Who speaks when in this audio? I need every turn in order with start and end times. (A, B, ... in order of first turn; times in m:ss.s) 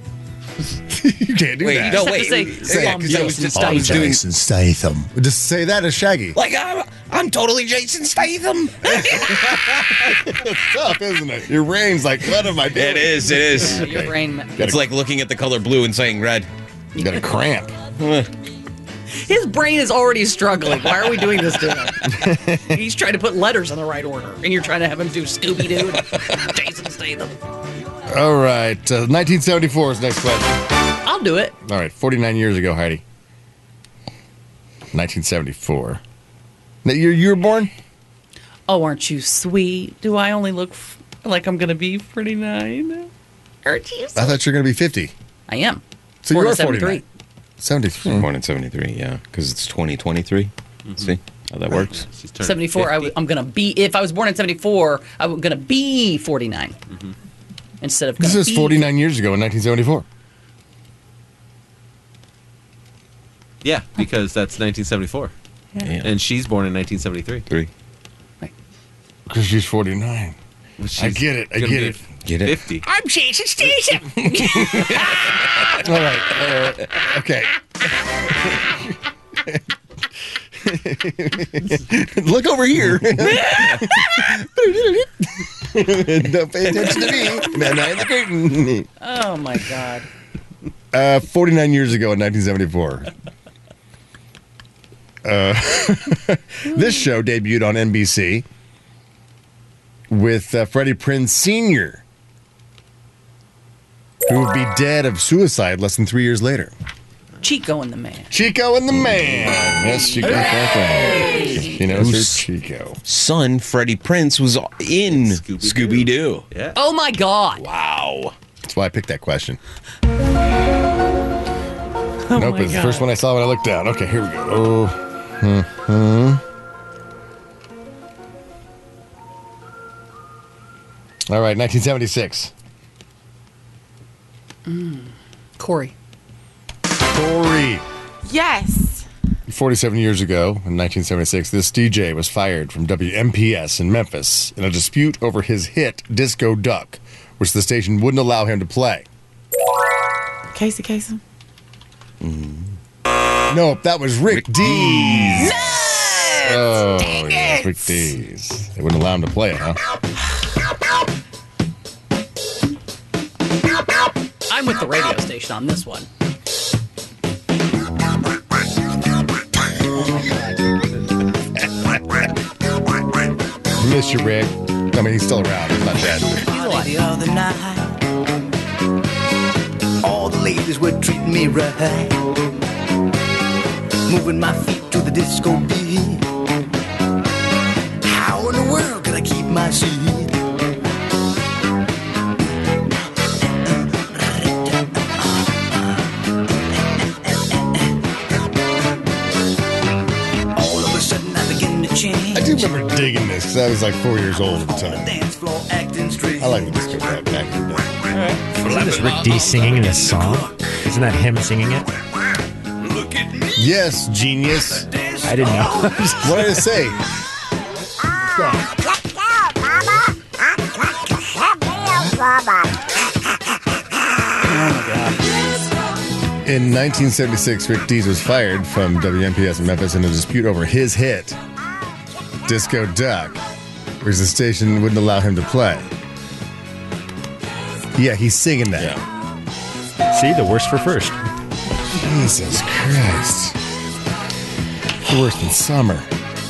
0:00.9-0:06.4 A
0:01.6-0:04.2 B
0:01.9-0:04.2 C
0:06.3-0:09.8 B
0:08.8-0:14.8 A
0:12.7-0:14.0 B
0:13.6-0:14.6 C
0:14.6-0:16.5 B
0:17.0-0:17.7 A
0:18.0-0:18.3 B
0:19.2-0:27.4 C
0:22.1-0:22.6 A
0:28.1-0:30.6 A
0:31.0-0:31.5 C
0:31.6-0:33.0 A
0:34.9-0:36.0 A
0:36.8-0:37.7 A
0:38.7-0:43.1 C
0:43.7-0:43.9 C
0:44.1-0:45.1 A
0:45.5-0:47.0 C
0:46.2-0:47.0 A
0:47.6-0:48.3 A
0:48.0-0:52.0 B
0:50.8-0:51.2 D
0:51.7-0:53.1 D
0:52.4-0:56.8 C
0:57.8-0:58.9 C
0:58.2-1:00.0 A
1:03.6-1:05.3 D
1:05.8-1:06.1 B
1:06.0-1:07.4 D
1:09.3-1:10.4 A
1:10.8-1:12.8 D
1:11.0-1:12.0 A
1:12.2-1:12.6 B
1:13.3-1:13.7 A
1:14.2-1:15.3 B
1:14.4-1:14.8 A
1:15.8-1:17.6 A
1:18.5-1:18.8 A
1:20.6-1:28.9 A
1:29.0-1:30.1 C
1:30.9-1:33.1 A
1:35.2-1:38.4 A
1:40.1-1:42.0 A
1:44.3-1:46.7 A
1:47.4-1:48.3 C
1:48.3-1:53.0 A
1:49.8-1:51.7 C
1:51.8-1:52.4 B
1:53.0-1:56.4 B
1:55.0-1:56.8 D
1:56.7-1:57.6 C
1:57.6-1:58.3 B
1:58.6-1:59.6 A
2:02.3-2:03.1 C
2:02.3-2:06.4 A
2:11.3-2:12.5 A
2:14.6-2:15.9 C
2:17.1-2:17.8 A
2:18.2-2:19.0 E
2:19.5-2:29.0 A
2:30.5-2:31.2 E
2:32.2-2:32.7 B
2:33.5-2:35.6 A
2:34.6-2:35.6 B
2:35.5-2:37.6 E
2:36.4-2:39.8 A
2:44.5-2:46.1 C
2:50.0-2:50.6 C
2:51.8-2:52.2 A
2:53.8-2:56.4 A
2:56.3-2:57.9 F
2:56.5-2:56.9 C
3:00.0-3:02.3 F
3:04.1-3:06.2 F
3:08.0-3:10.4 F
3:14.1-3:15.6 F
3:17.3-3:17.6 F
3:20.6-3:22.7 F
3:22.3-3:25.1 A
3:24.7-3:27.0 F
3:26.4-3:28.0 A
3:28.6-3:31.9 G
3:33.5-3:34.9 A
3:35.2-3:36.6 G
3:36.2-3:37.0 A
3:44.4-3:45.2 C
3:46.4-3:51.4 A
3:52.4-3:53.4 A
3:54.0-3:55.9 A
3:57.9-3:59.0 A
3:58.8-3:59.0 B
4:00.1-4:01.2 G
4:01.9-4:03.6 A
4:05.0-4:06.1 A